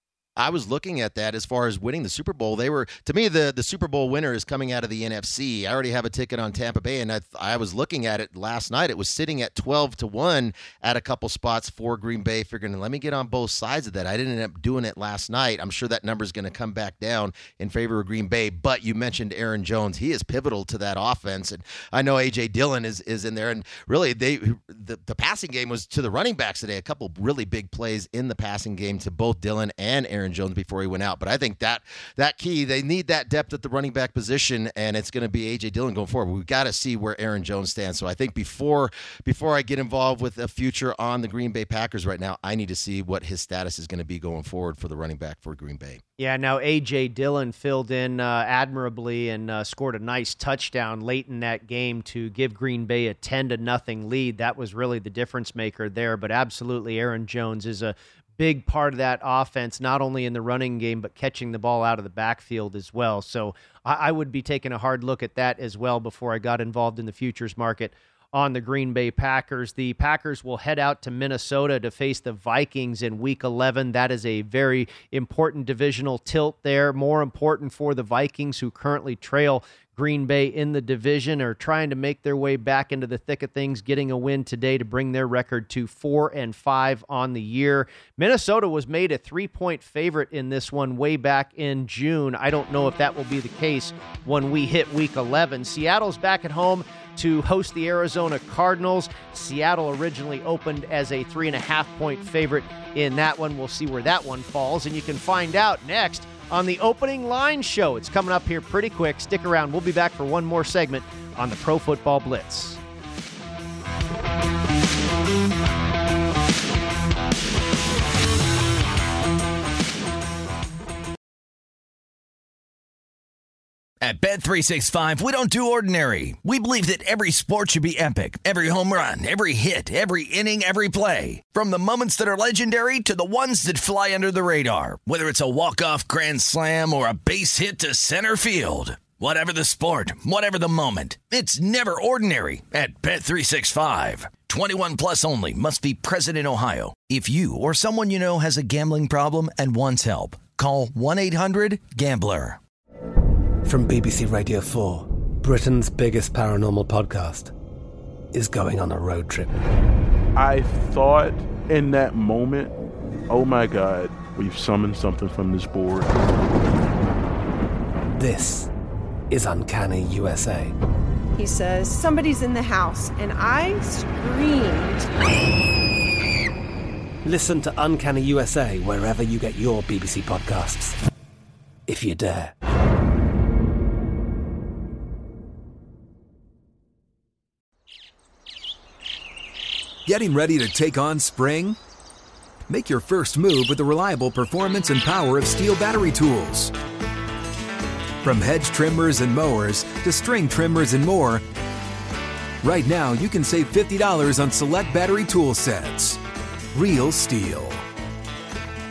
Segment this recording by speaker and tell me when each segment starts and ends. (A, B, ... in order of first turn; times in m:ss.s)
0:00.4-0:46.0 A
0:46.2-1:52.8 B
2:04.0-2:32.6 C
2:33.7-2:37.5 D
2:38.3-2:39.6 D
2:40.4-2:42.7 E
2:43.3-2:46.1 E
2:48.1-2:48.7 D
2:49.3-2:50.8 D
2:51.4-2:55.1 F
2:57.2-3:01.0 D
3:01.9-3:02.5 D
3:10.1-3:11.8 G
3:12.7-3:16.7 G
3:18.2-3:21.4 G
3:22.6-3:26.2 G
3:26.7-3:27.8 G